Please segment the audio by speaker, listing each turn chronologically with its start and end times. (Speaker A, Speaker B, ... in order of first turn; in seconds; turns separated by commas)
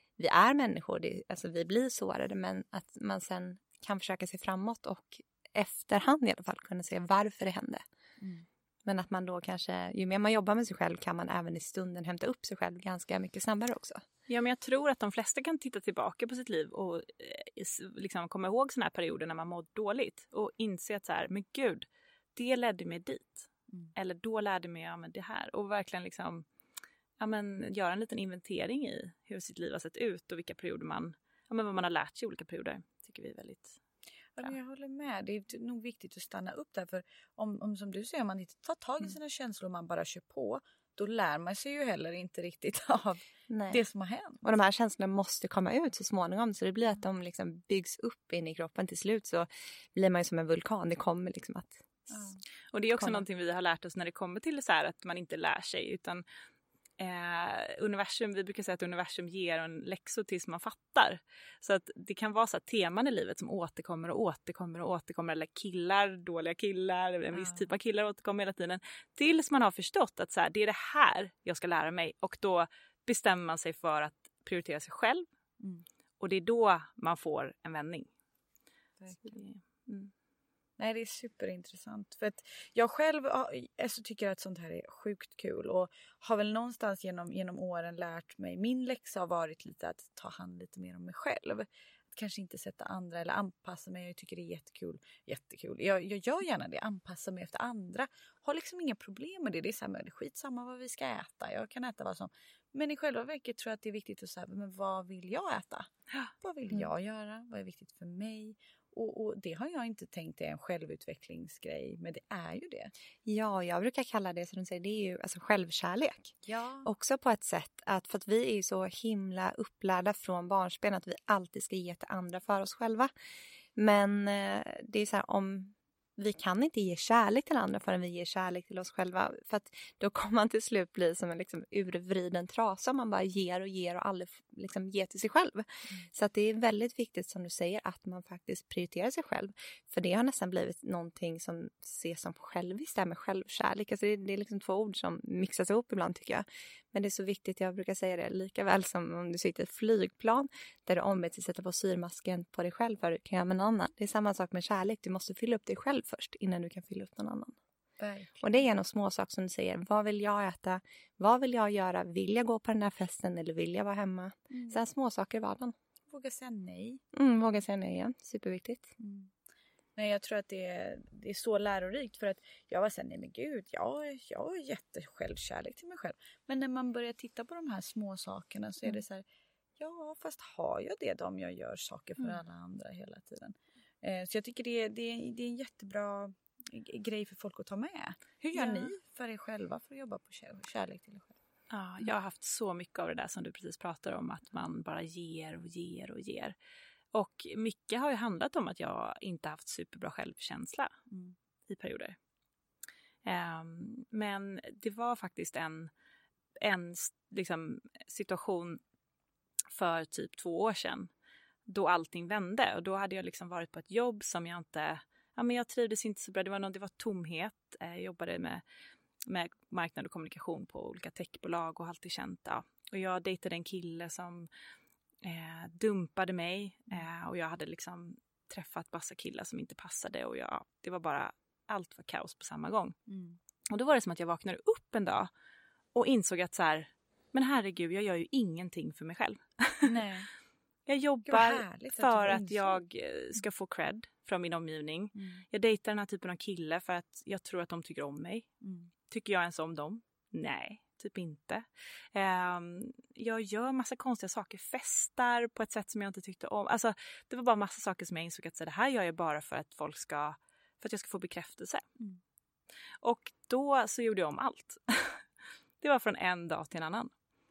Speaker A: 0.2-7.8, Speaker B: 8.2-8.5, Speaker A: 8.9-14.0, Speaker C: 14.3-26.5, Speaker C: 27.2-33.8, Speaker B: 34.4-44.4, Speaker A: 43.5-43.8, Speaker A: 44.4-52.2, Speaker B: 52.1-52.4, Speaker C: 52.7-56.2, Speaker A: 53.0-53.2, Speaker C: 57.0-75.3, Speaker B: 67.4-67.6, Speaker B: 75.6-75.8, Speaker C: 76.2-78.1, Speaker B: 79.0-79.3, Speaker C: 79.3-79.6, Speaker B: 80.8-105.9, Speaker B: 106.4-112.9, Speaker A: 113.2-116.3, Speaker B: 116.5-116.9, Speaker A: 116.8-123.1, Speaker A: 123.8-157.5, Speaker B: 158.0-158.5, Speaker A: 158.4-165.8, Speaker B: 164.5-164.8, Speaker B: 166.1-167.0, Speaker A: 167.1-168.9, Speaker B: 169.0-169.3, Speaker B: 170.0-179.2, Speaker B: 179.8-191.4, Speaker C: 191.7-196.6, Speaker C: 197.1-200.9, Speaker C: 201.7-202.2, Speaker C: 203.2-205.9, Speaker C: 206.6-208.8, Speaker C: 209.7-211.1, Speaker C: 211.7-218.6, Speaker C: 219.3-224.5, Speaker C: 225.2-232.9, Speaker B: 233.1-233.4, Speaker C: 233.7-235.3, Speaker C: 235.9-239.9, Speaker B: 239.9-240.3, Speaker C: 240.9-248.5, Speaker B: 241.3-242.8, Speaker B: 245.2-245.4, Speaker B: 248.6-248.9, Speaker C: 249.1-261.8, Speaker C: 263.0-265.2, Speaker C: 265.8-267.1